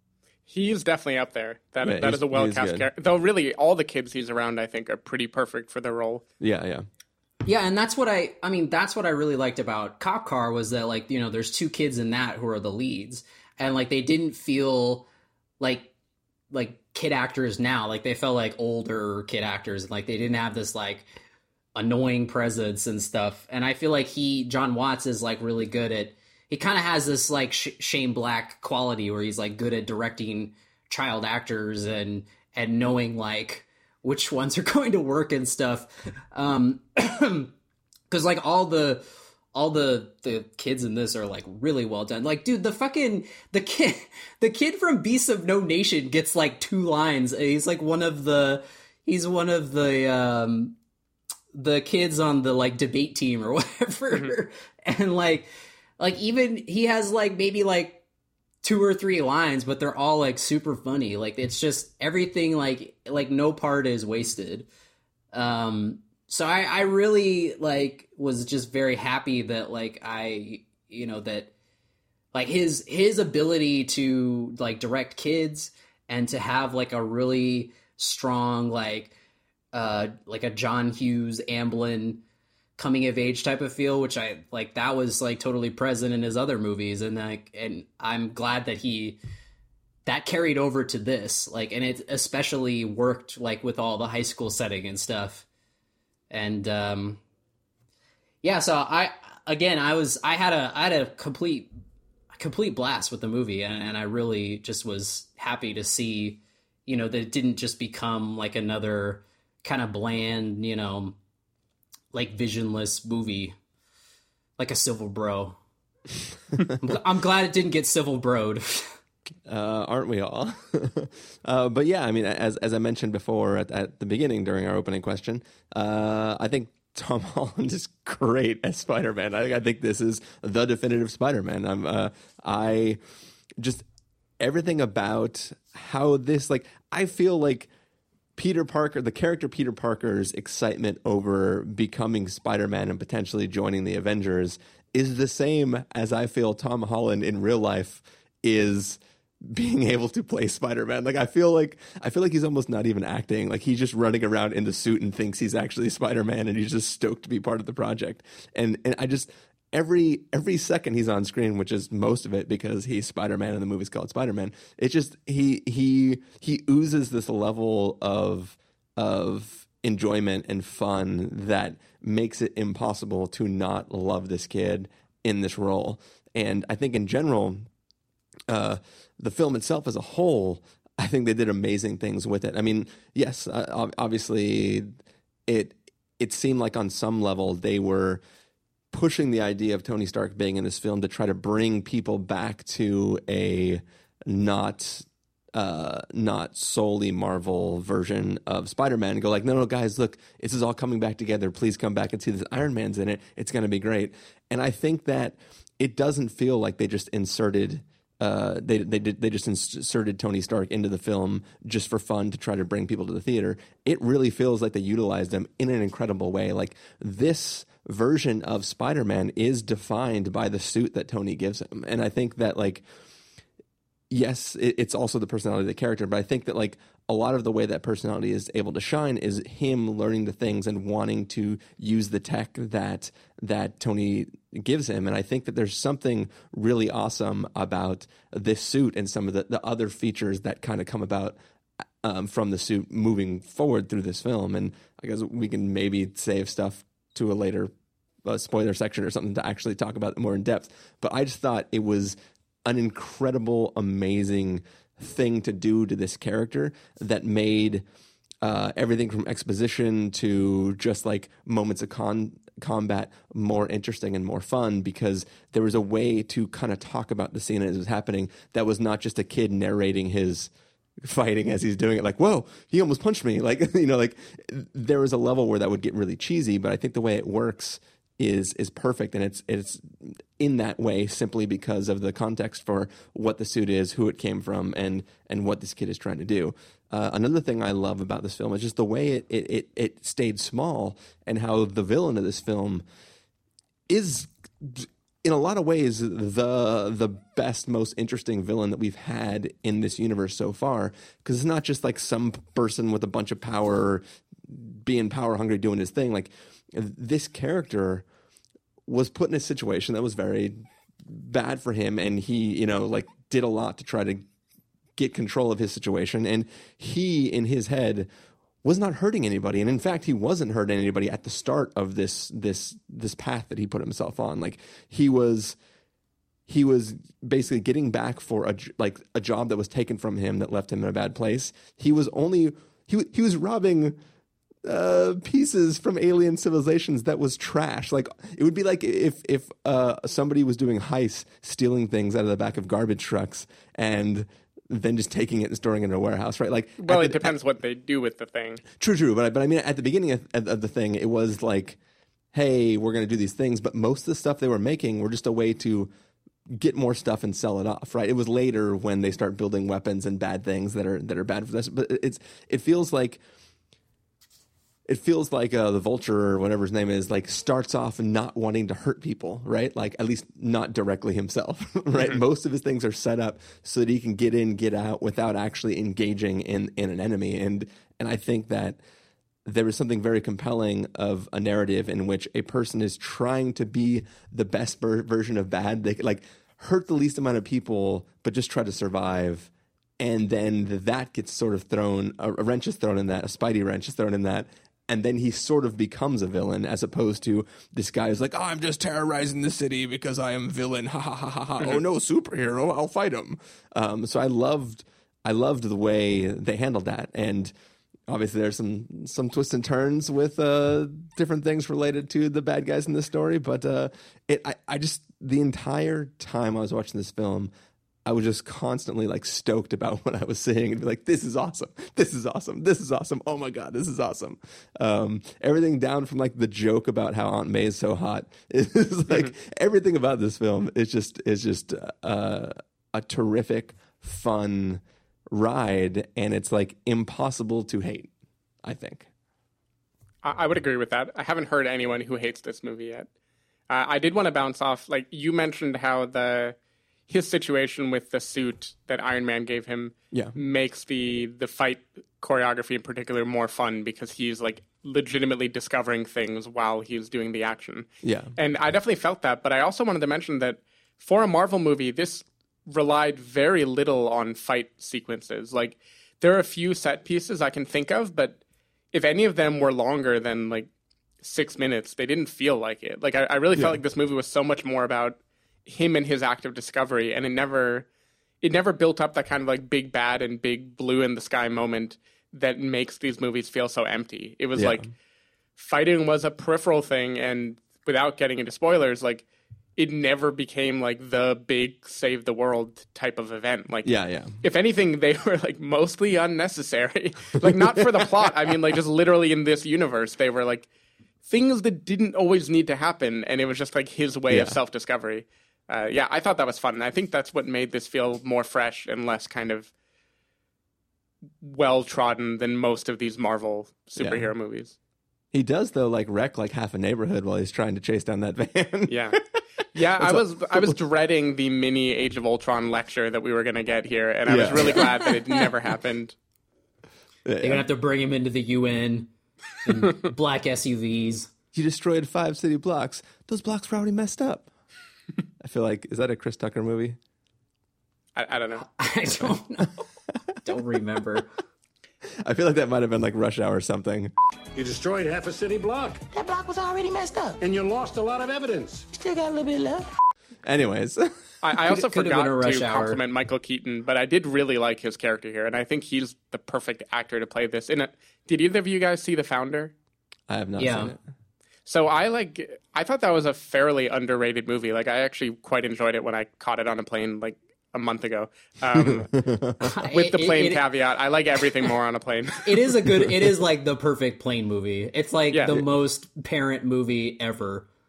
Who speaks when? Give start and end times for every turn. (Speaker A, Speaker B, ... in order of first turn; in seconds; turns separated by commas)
Speaker A: 0.5-6.2, Speaker B: 1.8-2.9, Speaker B: 6.4-6.8, Speaker C: 7.5-15.1, Speaker C: 15.6-15.9, Speaker C: 16.5-21.1, Speaker C: 21.8-37.5, Speaker C: 38.1-50.8, Speaker C: 51.5-58.0, Speaker C: 58.6-64.7, Speaker C: 65.3-71.5, Speaker C: 72.3-79.1, Speaker C: 79.7-82.2, Speaker C: 82.8-89.2, Speaker C: 90.1-95.5, Speaker C: 96.3-97.2, Speaker C: 98.4-101.7, Speaker C: 102.3-111.2, Speaker C: 112.1-113.5, Speaker C: 114.6-115.6, Speaker C: 116.8-119.0, Speaker B: 119.5-133.0, Speaker B: 133.6-133.8, Speaker B: 134.4-137.7, Speaker B: 138.4-177.7, Speaker B: 178.5-184.9, Speaker B: 185.5-188.2, Speaker B: 188.9-222.8, Speaker B: 224.1-241.4, Speaker B: 242.0-247.7, Speaker B: 248.2-257.9, Speaker B: 258.4-292.9, Speaker B: 293.9-308.1, Speaker B: 308.9-314.3, Speaker B: 315.0-318.1, Speaker B: 318.6-325.6, Speaker B: 326.5-334.0, Speaker B: 334.6-347.4, Speaker A: 346.8-348.6, Speaker B: 348.8-351.8, Speaker B: 352.3-355.9, Speaker B: 356.5-363.2, Speaker B: 364.9-378.8, Speaker B: 379.4-407.5, Speaker B: 408.1-417.5, Speaker B: 418.1-438.1, Speaker B: 438.6-439.1, Speaker A: 440.2-443.1, Speaker A: 443.7-446.6, Speaker A: 447.1-468.4, Speaker B: 450.1-450.4, Speaker B: 458.0-458.3, Speaker A: 468.9-470.7, Speaker A: 471.2-477.9, Speaker B: 473.6-473.8, Speaker A: 478.4-484.8, Speaker B: 484.6-484.9, Speaker A: 485.6-500.7, Speaker B: 493.8-494.4, Speaker B: 497.4-498.3, Speaker A: 501.3-509.7, Speaker B: 504.3-504.6, Speaker A: 511.4-514.8, Speaker B: 514.0-514.3, Speaker B: 515.3-519.2, Speaker A: 518.9-519.2, Speaker A: 519.8-526.1, Speaker B: 520.0-520.8, Speaker B: 524.3-525.0, Speaker B: 527.3-527.7, Speaker C: 527.4-529.1, Speaker C: 529.6-531.3, Speaker B: 531.5-534.5, Speaker B: 535.4-537.0, Speaker A: 538.2-538.7, Speaker C: 538.7-539.8, Speaker C: 540.4-541.3, Speaker B: 542.2-544.1, Speaker D: 544.5-546.0, Speaker E: 546.1-547.4, Speaker D: 547.4-548.9, Speaker E: 549.0-549.9, Speaker B: 550.4-551.1, Speaker A: 551.4-559.7, Speaker C: 551.7-553.0, Speaker B: 560.3-561.0, Speaker C: 560.6-560.9, Speaker A: 561.7-569.1, Speaker B: 568.8-569.7, Speaker C: 569.6-570.6, Speaker A: 569.9-572.7, Speaker C: 572.5-577.7, Speaker A: 575.3-575.6